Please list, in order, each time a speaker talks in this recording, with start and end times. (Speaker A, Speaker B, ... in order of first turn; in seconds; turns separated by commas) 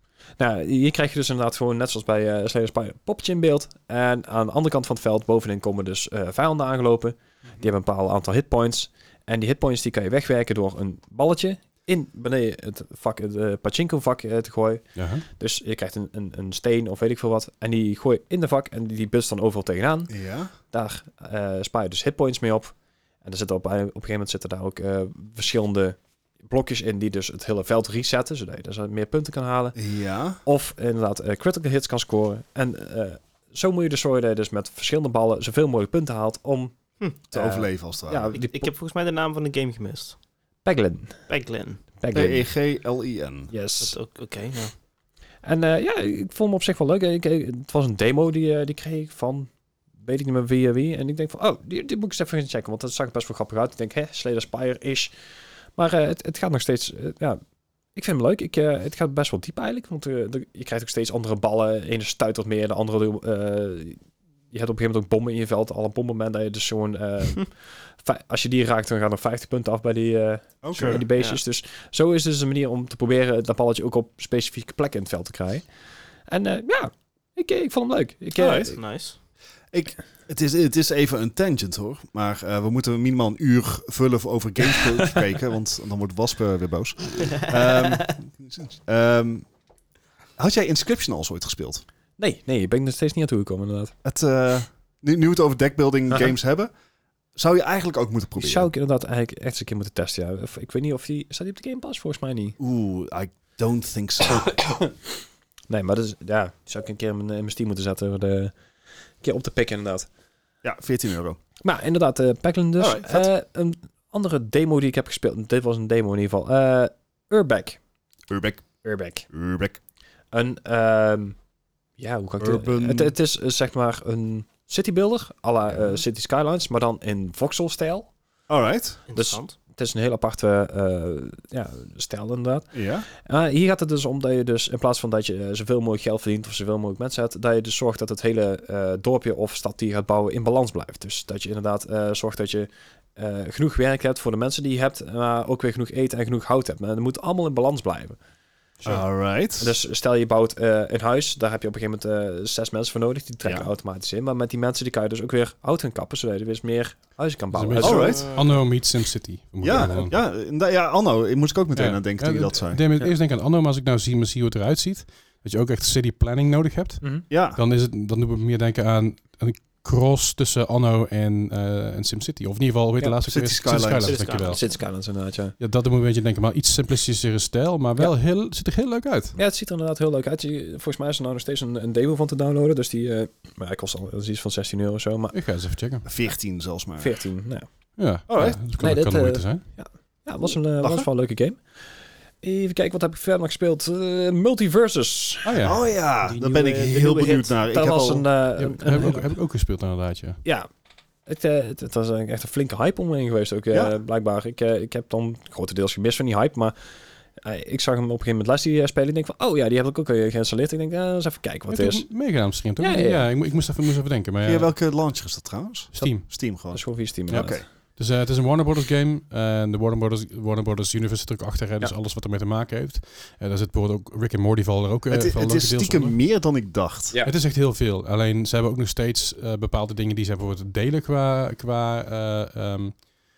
Speaker A: 0.4-20.2, Speaker B: 14.9-15.2, Speaker C: 20.1-20.5, Speaker A: 20.7-29.8, Speaker C: 29.7-30.4, Speaker A: 30.4-36.7, Speaker A: 37.3-38.7, Speaker C: 37.3-38.3, Speaker D: 38.3-40.1, Speaker A: 40.6-41.2, Speaker D: 41.3-41.8, Speaker A: 42.0-42.5, Speaker C: 42.1-43.5, Speaker A: 43.5-44.0, Speaker D: 43.8-44.7, Speaker A: 45.4-55.1, Speaker A: 55.8-57.4, Speaker A: 57.9-64.0, Speaker A: 64.5-75.7, Speaker C: 70.6-71.0, Speaker D: 70.7-71.4, Speaker A: 76.3-78.8, Speaker D: 78.3-79.2, Speaker C: 79.7-89.5, Speaker C: 90.4-91.8, Speaker A: 92.2-93.9, Speaker C: 94.0-96.7, Speaker C: 97.3-98.7, Speaker A: 98.4-102.6, Speaker C: 102.6-104.6, Speaker A: 104.4-104.7, Speaker A: 105.7-108.5, Speaker A: 109.2-110.1, Speaker C: 110.6-111.4, Speaker A: 111.6-117.8, Speaker C: 112.8-113.3, Speaker C: 118.3-118.7, Speaker A: 118.8-119.3, Speaker C: 119.3-119.8, Speaker A: 120.3-121.3, Speaker A: 122.0-128.1, Speaker C: 122.4-123.1, Speaker C: 128.5-129.0, Speaker D: 129.1-129.5, Speaker A: 129.1-148.2, Speaker C: 132.7-133.1, Speaker C: 148.8-149.8, Speaker A: 149.6-158.2, Speaker B: 157.5-160.2, Speaker C: 157.8-158.3, Speaker D: 157.8-158.6, Speaker C: 159.6-162.8, Speaker B: 161.7-174.7, Speaker C: 167.3-167.6, Speaker C: 173.3-174.2, Speaker D: 174.0-174.8, Speaker A: 174.5-175.6, Speaker B: 175.6-179.3, Speaker A: 179.3-185.4, Speaker B: 185.3-186.1, Speaker C: 186.0-187.2, Speaker A: 187.0-187.7, Speaker B: 188.0-189.6, Speaker C: 188.3-188.6, Speaker A: 188.7-191.7, Speaker C: 190.8-191.1, Speaker A: 192.4-195.6, Speaker B: 195.4-195.8, Speaker C: 195.6-198.3, Speaker D: 196.2-197.5, Speaker A: 197.7-199.3, Speaker B: 198.6-200.4, Speaker A: 200.4-200.7, Speaker A: 201.2-206.8, Speaker A: 207.4-213.2, Speaker B: 211.7-214.7, Speaker C: 214.4-217.6, Speaker B: 215.9-216.3, Speaker A: 216.7-217.6, Speaker B: 217.3-226.2, Speaker C: 225.1-227.2, Speaker B: 227.2-233.1